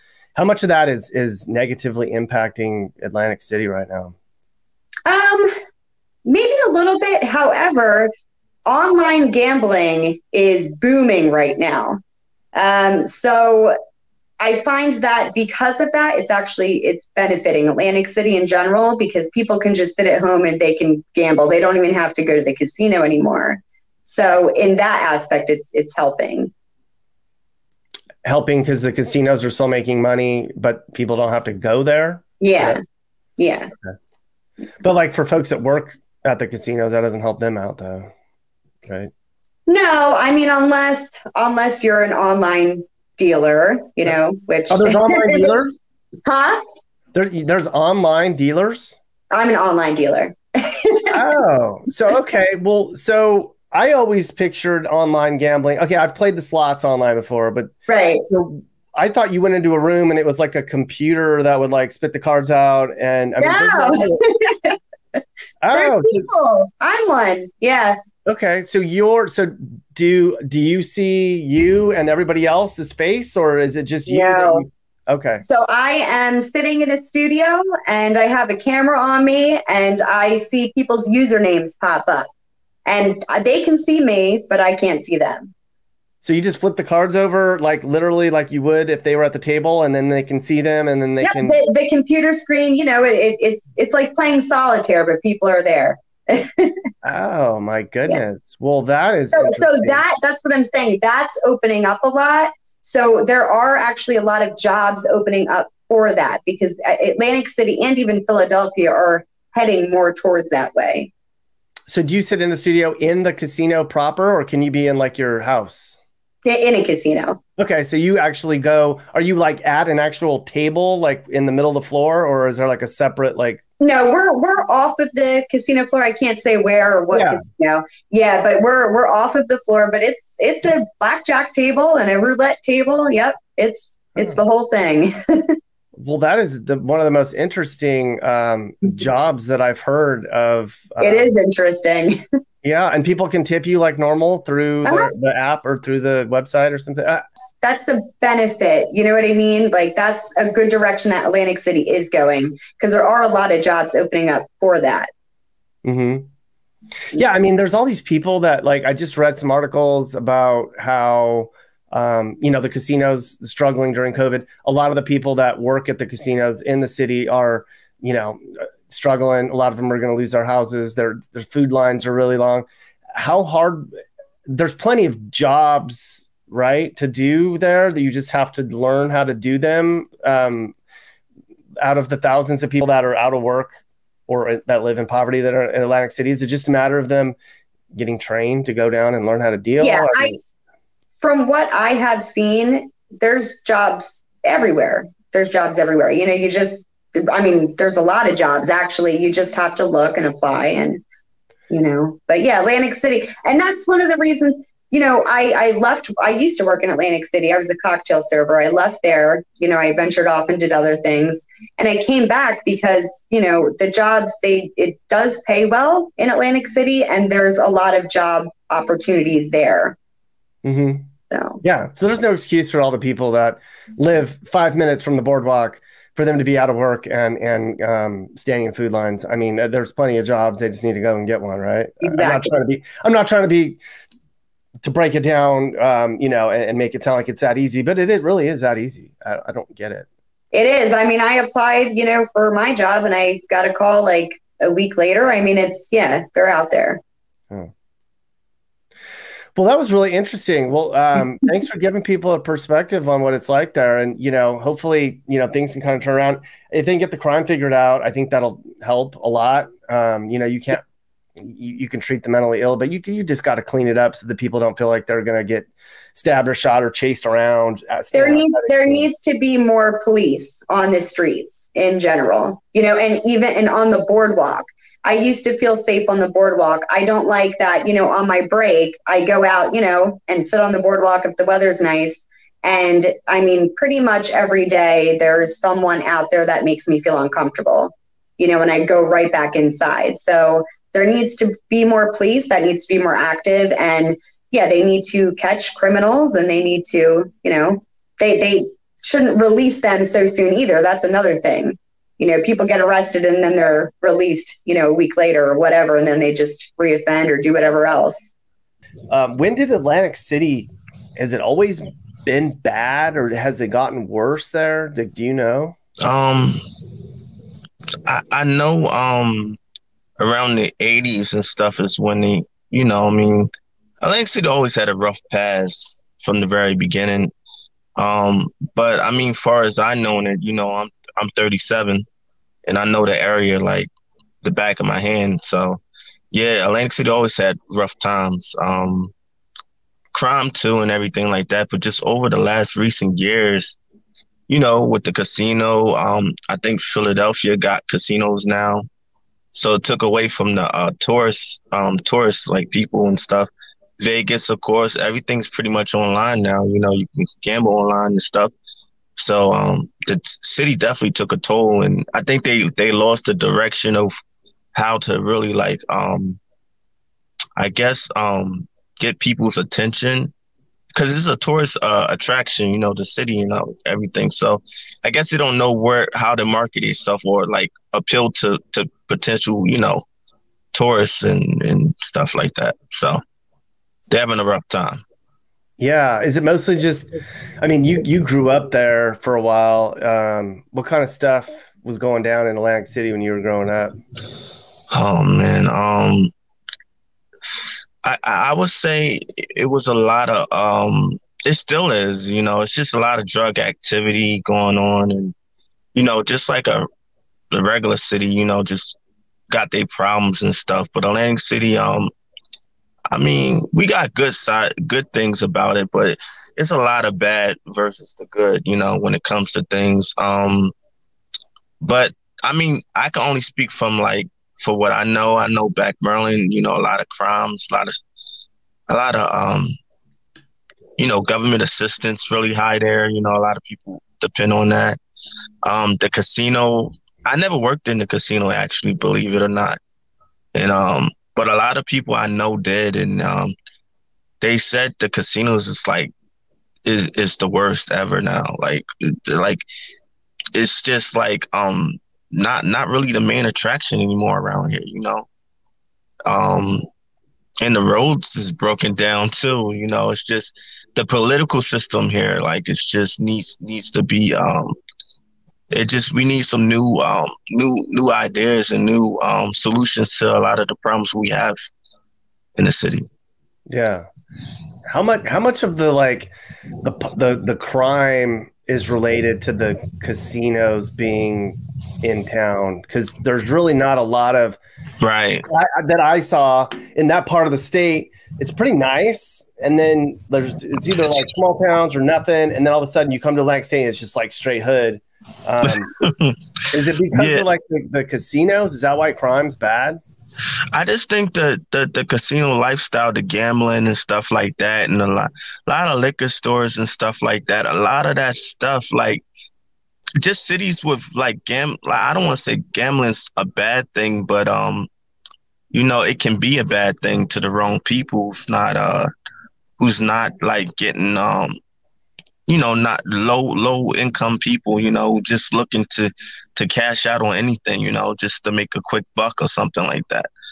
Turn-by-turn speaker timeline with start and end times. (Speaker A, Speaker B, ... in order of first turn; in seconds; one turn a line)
Speaker A: 0.3-4.1
Speaker B: 5.1-5.5
Speaker B: 6.2-8.1
Speaker B: 8.7-12.0
Speaker B: 12.5-13.8
Speaker B: 14.4-26.5
Speaker A: 28.2-32.8
Speaker B: 32.4-32.8
Speaker B: 33.4-33.7
Speaker A: 34.8-38.1
Speaker B: 39.7-45.5
Speaker A: 44.7-45.8
Speaker B: 46.2-46.6
Speaker A: 47.1-49.0
Speaker B: 49.3-51.1
Speaker A: 51.1-57.7
Speaker B: 57.9-58.2
Speaker A: 58.3-64.2
Speaker B: 63.4-64.8
Speaker A: 65.6-66.2
Speaker B: 65.7-68.0
Speaker A: 68.2-75.4
Speaker B: 74.1-74.6
Speaker B: 75.4-82.3
Speaker B: 82.9-85.5
Speaker A: 86.2-91.6
Speaker B: 91.2-96.8
Speaker A: 97.0-100.0
Speaker B: 99.3-111.1
Speaker A: 111.9-116.0
Speaker B: 116.5-117.4
Speaker A: 117.6-123.6
Speaker B: 123.8-135.6
Speaker A: 127.1-127.4
Speaker A: 135.9-141.3
Speaker B: 141.0-142.1
Speaker A: 142.6-147.2
Speaker B: 144.8-145.1
Speaker B: 147.6-155.1
Speaker A: 155.8-156.3
Speaker A: 157.1-173.9
Speaker A: 174.5-180.8
Speaker A: 181.8-183.8
Speaker A: 184.3-187.4
Speaker A: 187.9-190.4
Speaker B: 189.8-190.4
Speaker B: 191.2-201.0
Speaker B: 201.7-219.9
Speaker A: 220.6-221.1
Speaker B: 221.3-221.6
Speaker A: 221.6-233.8
Speaker B: 232.0-232.5
Speaker A: 234.8-240.1
Speaker B: 240.5-247.0
Speaker A: 249.5-260.8
Speaker A: 261.4-269.1
Speaker B: 268.1-308.3
Speaker A: 309.1-315.8
Speaker C: 316.0-316.6
Speaker C: 318.1-319.6
Speaker C: 320.2-327.3
Speaker C: 327.9-332.1
Speaker C: 332.6-333.9
Speaker C: 334.4-335.8
Speaker C: 336.3-339.1
Speaker C: 340.1-343.8
Speaker C: 344.5-348.9
Speaker C: 349.5-358.5
Speaker C: 359.2-364.1
Speaker C: 364.7-366.4
Speaker C: 367.6-370.3
Speaker C: 370.9-380.0
Speaker C: 380.7-383.2
Speaker C: 384.1-385.0
Speaker A: 385.8-393.9
Speaker C: 394.9-396.3
Speaker C: 398.0-405.3
Speaker C: 405.9-406.9
Speaker C: 407.5-409.0
Speaker C: 409.5-412.1
Speaker C: 413.1-420.7
Speaker C: 421.8-427.9
Speaker C: 428.9-429.7
Speaker C: 431.0-435.0
Speaker C: 435.6-439.8
Speaker C: 440.5-443.5
Speaker C: 444.4-446.1
Speaker C: 446.9-449.6
Speaker C: 450.5-455.3
Speaker C: 456.2-456.8
Speaker C: 457.6-464.8
Speaker C: 465.7-471.6
Speaker C: 472.6-473.1
Speaker A: 473.7-474.1
Speaker A: 474.9-484.6
Speaker C: 485.0-485.4
Speaker A: 485.5-495.9
Speaker C: 496.0-496.4
Speaker A: 496.7-500.0
Speaker C: 497.1-497.4
Speaker C: 500.7-509.2
Speaker C: 510.2-514.9
Speaker C: 515.7-519.1
Speaker C: 519.8-521.6
Speaker C: 522.5-530.3